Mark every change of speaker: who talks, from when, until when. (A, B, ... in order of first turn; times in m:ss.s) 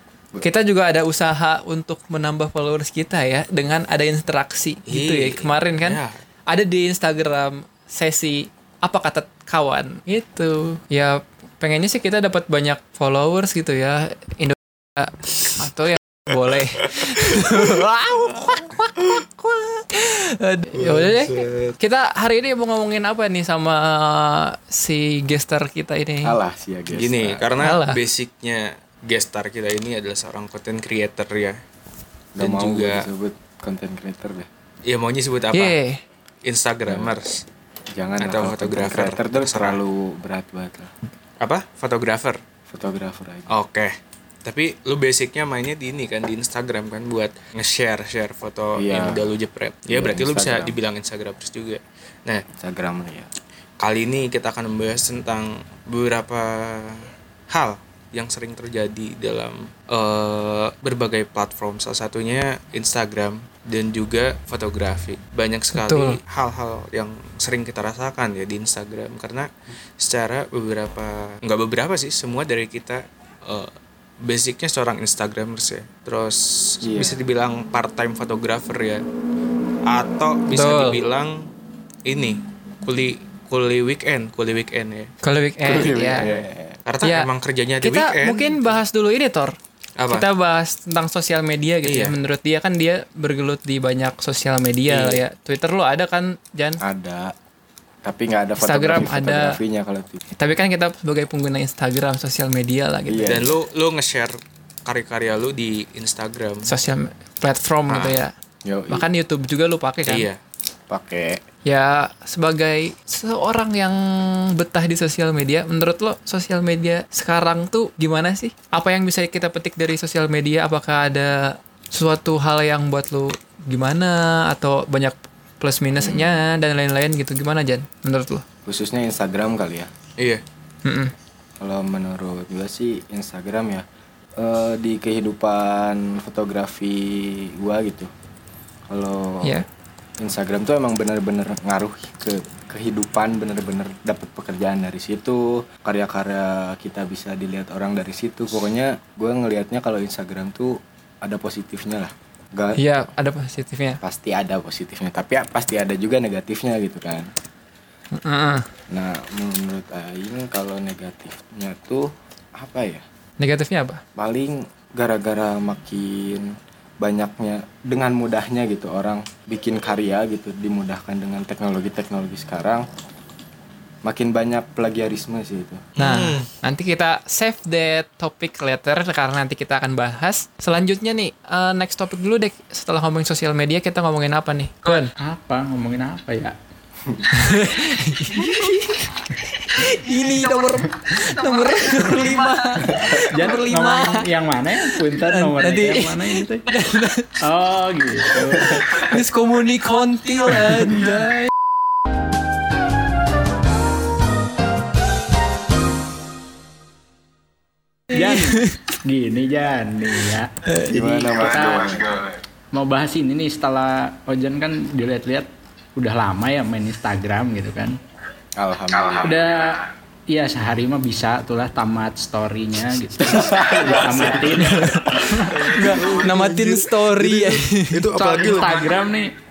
0:00.4-0:26.4 A
0:04.9-0:06.1 B
0:17.0-0:17.7 B
0:20.7-0:21.8 B
0:26.2-0:27.5 C
0:26.9-0:31.6 B
0:27.6-0:28.0 A
0:32.4-0:34.5 C
0:32.4-0:33.1 B
0:34.9-0:35.8 B
0:35.5-0:36.0 A
0:36.4-0:37.4 B
0:36.9-0:37.1 C
0:37.9-0:40.9 C
0:38.2-0:39.8 B
0:41.4-0:42.4 B
0:42.7-0:43.5 C
0:43.5-0:52.4 B
0:48.8-0:49.3 C
0:49.9-0:50.8 C
0:52.5-0:53.3 C
0:53.8-1:19.0 B
1:05.7-1:06.2 A
1:16.8-1:17.2 C
1:19.9-1:21.5 B
1:20.5-1:21.0 A
1:22.1-1:25.1 B
1:25.2-1:26.3 A
1:25.6-1:26.8 C
1:26.9-1:28.7 B
1:27.8-1:29.6 A
1:30.0-1:30.2 B
1:30.1-1:36.8 A
1:31.8-1:32.2 B
1:34.9-1:35.2 B
1:36.8-1:37.3 C
1:38.0-1:40.2 C
1:38.6-1:39.6 A
1:40.4-1:43.4 A
1:43.1-1:43.6 C
1:43.3-1:46.7 B
1:46.6-1:48.3 A
1:47.9-1:48.2 B
1:48.6-1:49.0 C
1:48.9-1:50.3 A
1:50.1-1:50.4 B
1:50.9-1:51.4 C
1:51.7-2:08.4 A
2:06.0-2:06.3 C
2:08.7-2:09.9 C
2:10.8-2:11.1 A
2:11.6-2:13.8 C
2:14.4-2:18.1 C
2:18.9-2:19.6 C
2:20.2-2:32.8 C
2:32.8-2:34.0 A
2:34.0-2:37.3 C
2:38.2-2:38.6 A
2:38.9-2:43.0 C
2:43.4-2:44.0 A
2:44.2-2:52.9 C
2:54.0-2:55.9 C
2:56.0-2:56.5 B
2:56.0-3:05.1 A
3:05.2-3:06.6 D
3:07.3-3:14.3 A
3:12.9-3:13.1 C
3:13.3-3:16.6 D
3:15.3-3:17.4 A
3:17.4-3:18.9 D
3:18.6-3:21.5 A
3:28.1-3:32.0 D
3:28.1-3:28.8 A
3:30.9-3:32.4 C
3:32.7-3:38.0 D
3:38.6-3:39.4 C
3:39.2-3:45.6 D
3:43.2-3:44.6 C
3:44.4-3:49.0 B
3:45.6-3:48.1 A
3:48.1-3:49.3 D